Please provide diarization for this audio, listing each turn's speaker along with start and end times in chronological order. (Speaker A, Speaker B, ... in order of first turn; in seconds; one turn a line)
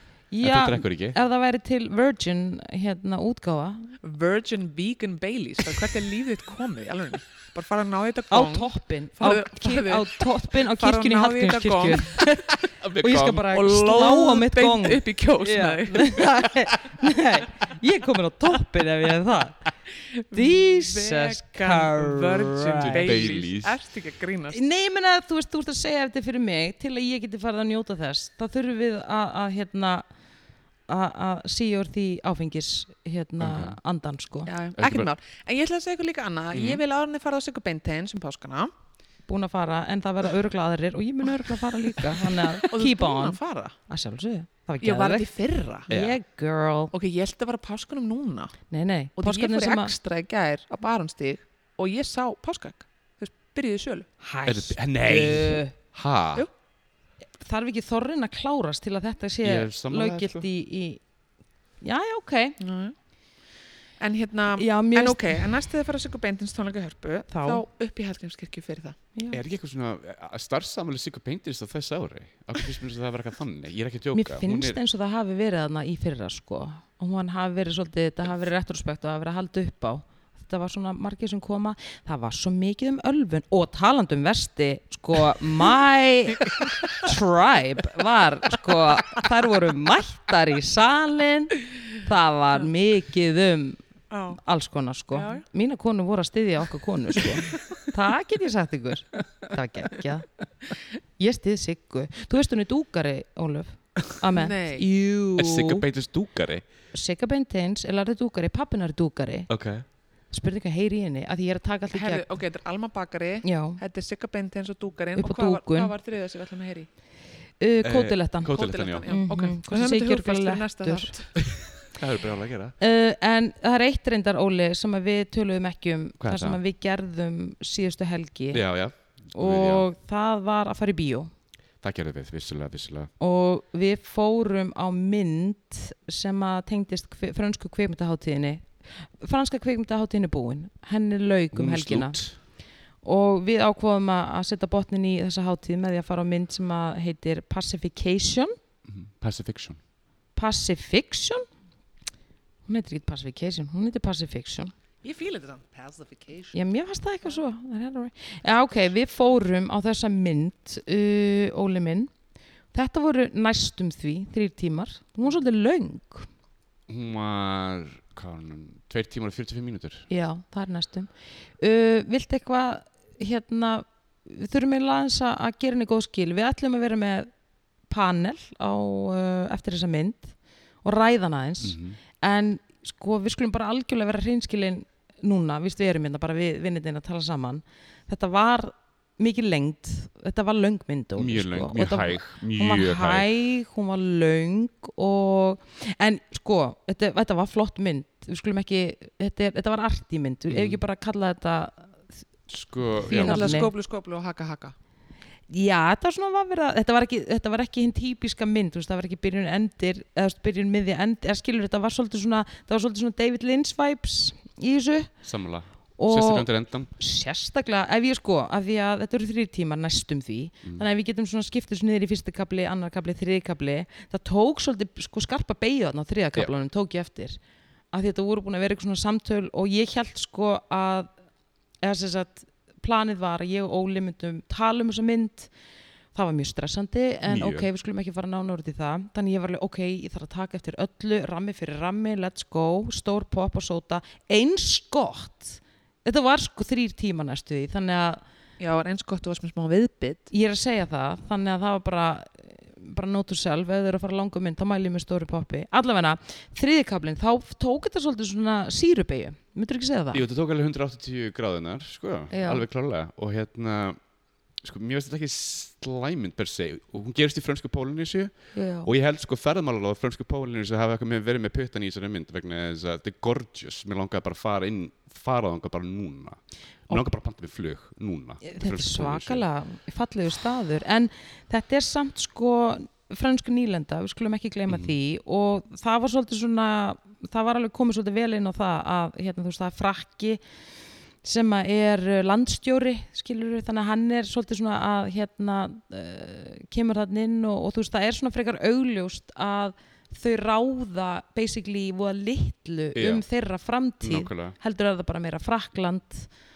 Speaker A: 0.3-3.9
Speaker B: 0.4-1.2
Speaker C: 4.0-12.3
Speaker A: 8.3-19.6
Speaker B: 12.8-13.5
Speaker C: 13.5-16.3
Speaker C: 20.0-24.6
Speaker A: 20.3-23.2
Speaker B: 22.8-23.8
Speaker A: 24.5-30.1
Speaker A: 30.9-34.5
Speaker B: 33.4-33.8
Speaker C: 34.5-38.7
Speaker B: 34.8-35.1
Speaker B: 36.5-36.8
Speaker A: 39.3-45.3
Speaker C: 42.2-43.8
Speaker C: 44.8-45.9
Speaker A: 45.9-46.9
Speaker B: 45.9-46.2
Speaker C: 46.9-48.5
Speaker A: 48.7-49.9
Speaker C: 49.2-54.1
Speaker A: 54.2-55.7
Speaker B: 54.5-56.5
Speaker A: 57.4-61.0
Speaker B: 59.4-60.5
Speaker A: 61.8-62.6
Speaker C: 62.6-62.9
Speaker C: 64.0-69.0
Speaker A: 64.6-65.5
Speaker A: 67.3-67.6
Speaker A: 69.1-69.4
Speaker B: 69.3-74.8
Speaker A: 74.1-93.8
Speaker C: 94.1-94.4
Speaker A: 94.3-100.4
Speaker C: 95.1-95.4
Speaker A: 101.2-105.8
Speaker C: 104.3-104.8
Speaker B: 105.4-106.6
Speaker A: 106.9-109.5
Speaker B: 109.5-109.8
Speaker A: 110.3-112.3
Speaker C: 111.9-116.9
Speaker A: 113.4-113.8
Speaker A: 115.2-115.9
Speaker A: 117.6-121.1
Speaker B: 117.8-119.1
Speaker C: 118.5-121.4
Speaker B: 121.8-122.8
Speaker A: 122.8-128.6
Speaker B: 126.2-126.6
Speaker B: 128.5-129.9
Speaker A: 129.3-131.3
Speaker B: 131.8-133.1
Speaker A: 133.2-142.2
Speaker B: 141.5-142.4
Speaker A: 143.0-148.5
Speaker B: 148.8-149.8
Speaker A: 150.3-151.4
Speaker A: 152.7-154.7
Speaker C: 155.0-156.6
Speaker A: 156.5-162.1
Speaker A: 162.7-166.3
Speaker B: 166.9-170.1
Speaker A: 170.1-177.3
Speaker A: 177.9-202.0
Speaker B: 181.6-182.0
Speaker B: 191.2-193.3
Speaker B: 200.5-200.8
Speaker B: 202.5-203.6
Speaker A: 203.0-203.7
Speaker C: 203.1-204.7
Speaker A: 205.5-215.1
Speaker B: 215.2-216.9
Speaker A: 216.0-227.4
Speaker A: 227.9-231.1
Speaker A: 231.8-235.5
Speaker A: 236.1-248.2
Speaker B: 237.2-237.7
Speaker C: 248.6-250.3
Speaker A: 250.3-260.2
Speaker B: 260.1-264.0
Speaker A: 262.3-262.6
Speaker B: 264.6-279.4
Speaker A: 268.5-268.9
Speaker A: 278.4-290.4
Speaker B: 284.7-284.9
Speaker A: 291.2-306.3
Speaker B: 302.9-303.2
Speaker B: 304.0-304.6